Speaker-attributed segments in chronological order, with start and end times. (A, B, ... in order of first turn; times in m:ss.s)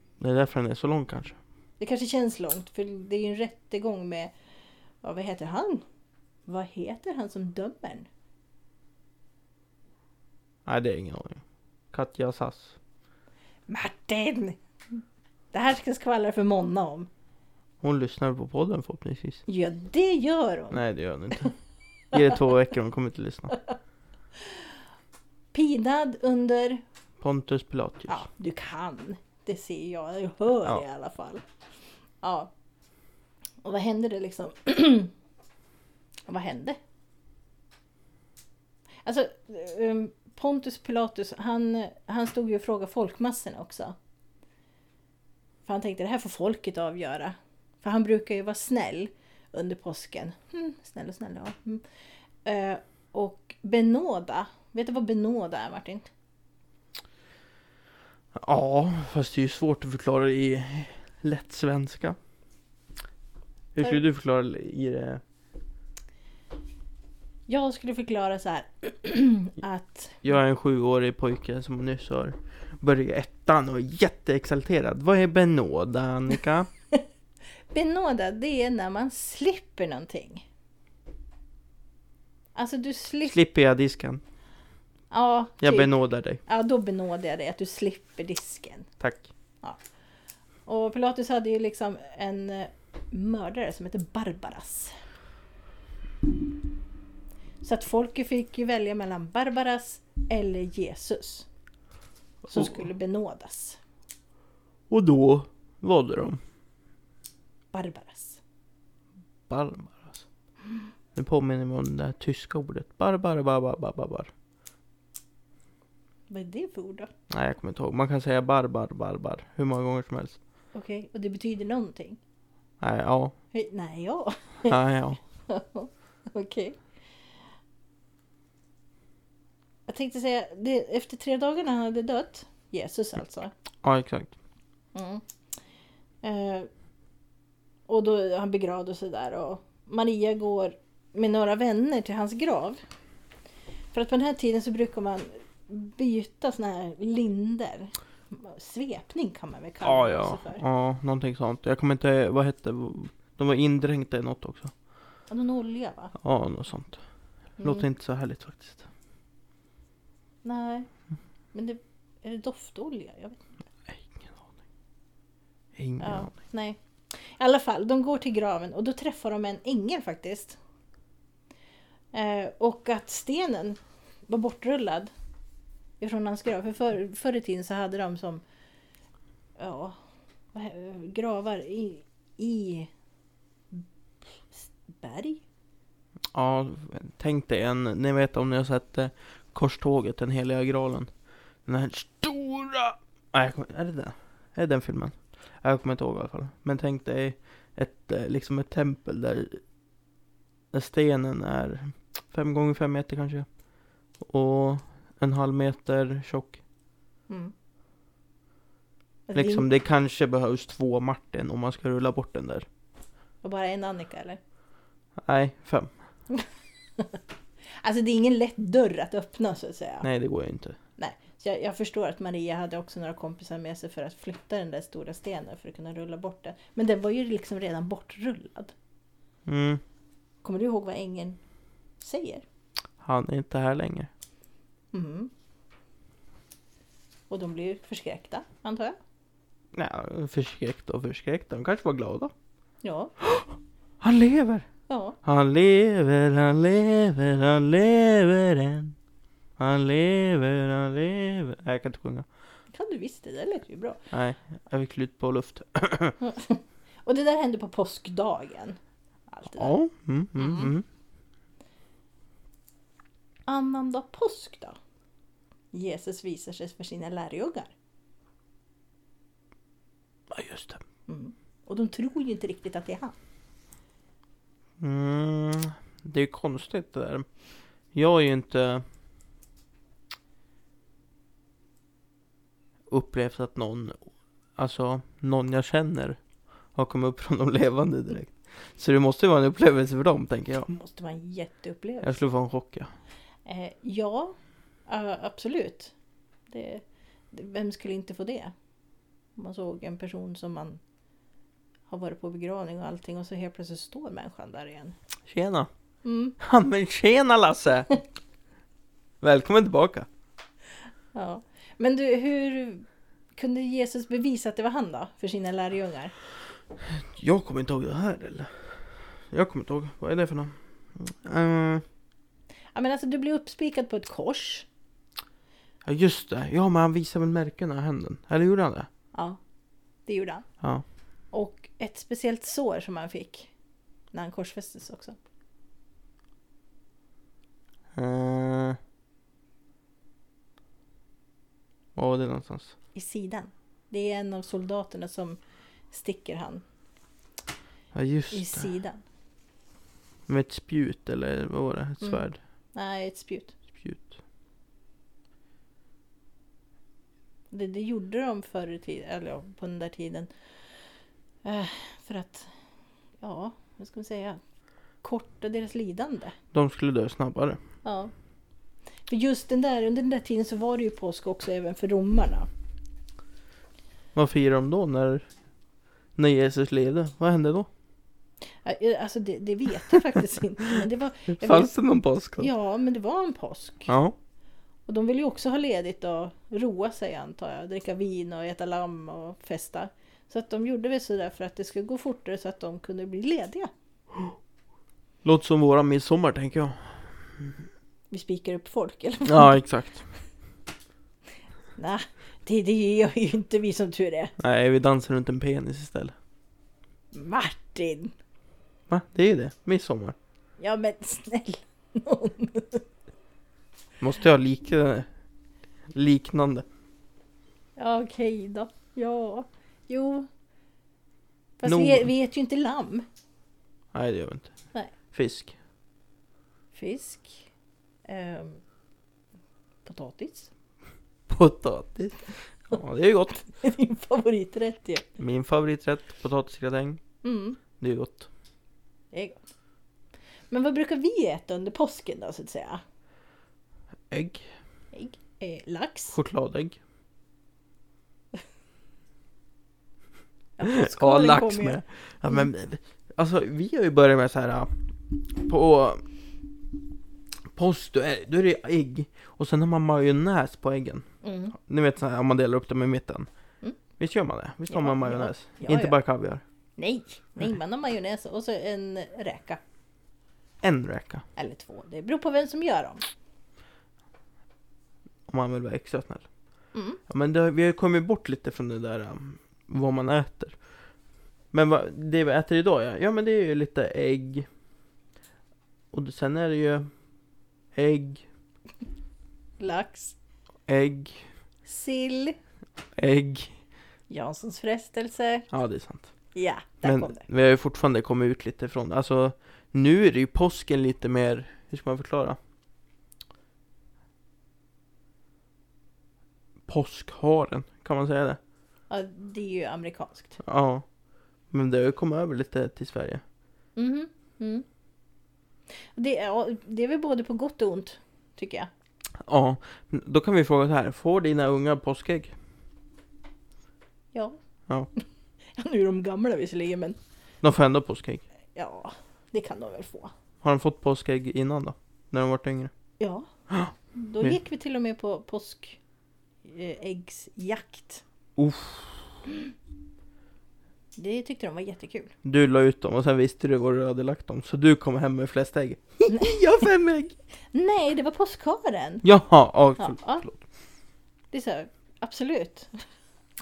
0:00.2-0:01.4 A
0:01.8-0:04.3 B
0:05.0-0:05.8 B
0:06.5-0:08.1 B
0:10.7-0:12.8 A
0:13.7-0:15.0 B
0:15.5-0:17.1 B
0:17.8-0:19.4 A
0:19.5-0:20.8 B
0:20.7-0:21.5 A
0:22.1-0:23.6 A
0:25.5-0:26.8 B
0:27.2-0:28.3 A
0:28.1-0:31.4 B
0:32.2-0:32.5 B
0:33.6-0:35.1 B
0:36.3-0:36.8 B
0:39.0-0:44.0 B
0:45.6-0:51.8 B
0:52.4-0:56.1 B
0:58.3-1:02.2 A
1:03.8-1:05.2 A
1:07.5-1:10.2 B
1:10.2-1:16.7 A
1:17.7-1:20.5 B
1:22.6-1:23.4 B
1:23.3-1:24.2 A
1:25.1-1:25.9 B
1:25.6-1:26.4 A
1:26.4-1:28.9 B
1:29.0-1:29.3 A
1:30.7-1:35.0 B
1:37.6-1:41.5 B
1:42.5-1:42.8 A
1:42.5-1:43.8 B
1:44.9-1:46.4 A
1:47.7-1:48.4 B
1:49.5-1:50.2 A
1:51.2-1:54.3 A
1:56.3-1:57.1 B
1:57.3-2:00.4 A
2:00.7-2:02.2 B
2:02.8-2:03.4 A
2:03.5-2:04.8 B
2:04.7-2:05.2 A
2:05.5-2:06.8 B
2:09.9-2:13.5 B
2:13.8-2:14.4 A
2:14.9-2:15.2 B
2:16.2-2:16.7 B
2:17.9-2:22.8 B
2:23.9-2:30.6 B
2:29.8-2:34.7 A
2:35.3-2:36.1 B
2:36.2-2:37.0 A
2:37.6-2:37.9 B
2:37.6-2:38.9 A
2:40.4-2:40.9 B
2:41.5-2:43.4 B
2:43.9-2:44.5 A
2:45.8-2:46.3 A
2:46.0-2:50.6 B
2:52.1-2:55.1 B
2:56.0-2:58.4 B
2:59.6-3:00.0 B
3:00.5-3:02.9 B
3:04.5-3:05.4 B
3:06.3-3:11.1 A
3:11.6-3:19.6 A
3:20.7-3:23.5 A
3:24.2-3:26.6 A
3:29.3-3:29.7 B
3:29.4-3:32.7 A
3:33.4-3:34.4 B
3:35.2-3:35.9 A
3:37.8-3:40.1 B
3:40.0-3:40.8 A
3:41.0-3:48.8 B
3:49.5-3:49.8 A
3:50.4-3:51.4 B
3:52.0-3:52.4 B
3:53.0-3:54.1 A
3:54.9-3:55.3 B
3:57.3-3:59.0 B
3:59.7-4:02.3 A
4:02.8-4:03.1 B
4:03.2-4:04.7 A
4:04.9-4:05.2 B
4:05.2-4:09.0 A
4:09.6-4:12.3 A
4:12.7-4:14.0 B
4:14.1-4:16.2 A
4:16.2-4:19.7 B
4:19.6-4:20.8 A
4:20.4-4:20.7 B
4:23.5-4:24.8 B
4:25.7-4:27.7 B
4:30.3-4:30.8 A
4:31.1-4:33.2 B
4:34.8-4:37.3 A
4:37.9-4:38.8 A
4:42.9-4:44.0 A
4:44.6-4:46.2 A
4:46.8-4:50.7 A
4:50.7-4:52.2 B
4:52.0-4:52.9 A
4:53.5-4:54.4 B
4:54.9-4:55.9 B
4:56.5-4:58.5 B
4:59.4-5:00.8 B
5:01.9-5:05.0 B
5:05.3-5:05.7 A
5:06.0-5:06.4 B
5:06.4-5:08.0 A
5:09.2-5:10.1 A
5:11.1-5:16.1 B
5:16.9-5:21.8 A
5:22.7-5:24.7 B
5:25.8-5:28.9 A
5:29.1-5:29.4 B
5:30.1-5:30.5 B
5:31.3-5:33.5 B
5:34.1-5:35.2 B
5:38.0-5:38.8 A
5:42.0-5:42.7 A
5:42.9-5:45.4 B
5:45.9-5:46.6 B
5:47.9-5:48.7 A
5:48.3-5:49.0 B
5:50.3-5:52.4 A
5:52.0-5:53.6 B
5:53.7-5:54.2 A
5:57.5-6:00.9 B
6:01.4-6:02.5 B
6:03.2-6:04.4 B
6:05.0-6:06.4 B
6:06.5-6:07.6 A
6:07.8-6:08.1 B
6:09.1-6:12.5 B
6:14.1-6:15.3 A
6:16.2-6:17.7 A
6:18.6-6:21.8 B
6:21.4-6:22.5 A
6:22.4-6:23.9 B
6:23.9-6:24.2 A
6:24.9-6:33.7 B
6:35.2-6:37.6 A
6:38.1-6:39.6 B
6:39.3-6:40.1 A
6:41.8-6:44.4 B
6:44.4-6:46.2 A
6:47.1-6:48.2 B
6:48.9-6:50.2 A
6:50.6-6:52.8 B
6:54.0-6:55.1 A
6:55.9-6:56.7 A
6:57.8-7:00.3 B
7:01.6-7:03.1 B
7:01.6-7:02.1 A
7:03.9-7:05.6 A
7:06.7-7:07.5 B
7:08.1-7:08.6 B
7:09.8-7:10.5 B
7:11.3-7:13.5 A
7:13.5-7:15.1 B
7:15.2-7:17.0 A
7:17.2-7:17.6 B
7:17.8-7:18.3 A
7:19.1-7:19.4 B
7:20.5-7:22.8 B
7:24.1-7:24.5 A
7:24.9-7:26.2 B
7:26.1-7:26.8 A
7:30.6-7:32.5 B
7:30.7-7:36.0 A
7:37.5-7:43.3 A
7:41.2-7:41.6 B
7:44.0-7:46.4 A
7:44.7-7:46.0 B
7:46.8-7:49.6 B
7:50.6-7:51.2 A
7:51.4-7:53.0 B
7:55.3-7:56.3 A
7:56.7-7:57.0 B
7:57.1-8:00.6 A
8:01.5-8:04.5 A
8:05.9-8:06.9 A
8:07.7-8:08.3 A
8:09.6-8:10.2 B
8:10.7-8:11.3 A
8:11.7-8:12.4 B
8:13.0-8:13.6 A
8:14.1-8:15.5 B
8:15.5-8:16.1 A
8:16.4-8:17.3 B
8:16.8-8:22.4 A
8:26.7-8:28.4 A
8:28.9-8:30.4 B
8:30.4-8:30.8 A
8:31.5-8:33.2 A
8:33.8-8:34.6 B
8:36.0-8:38.7 B
8:39.2-8:42.4 A
8:45.6-8:47.0 B
8:47.4-8:48.2 A
8:48.6-8:50.1 B
8:50.4-8:52.7 A
8:53.0-8:53.3 B
8:53.5-8:54.4 A
8:53.9-8:55.8 B
8:56.4-8:58.0 B
8:58.4-8:59.0 A
9:01.0-9:02.1 B
9:02.2-9:07.2 A
9:06.1-9:06.4 B
9:07.5-9:09.0 B
9:09.0-9:10.4 A
9:09.8-9:10.3 B
9:11.3-9:12.8 B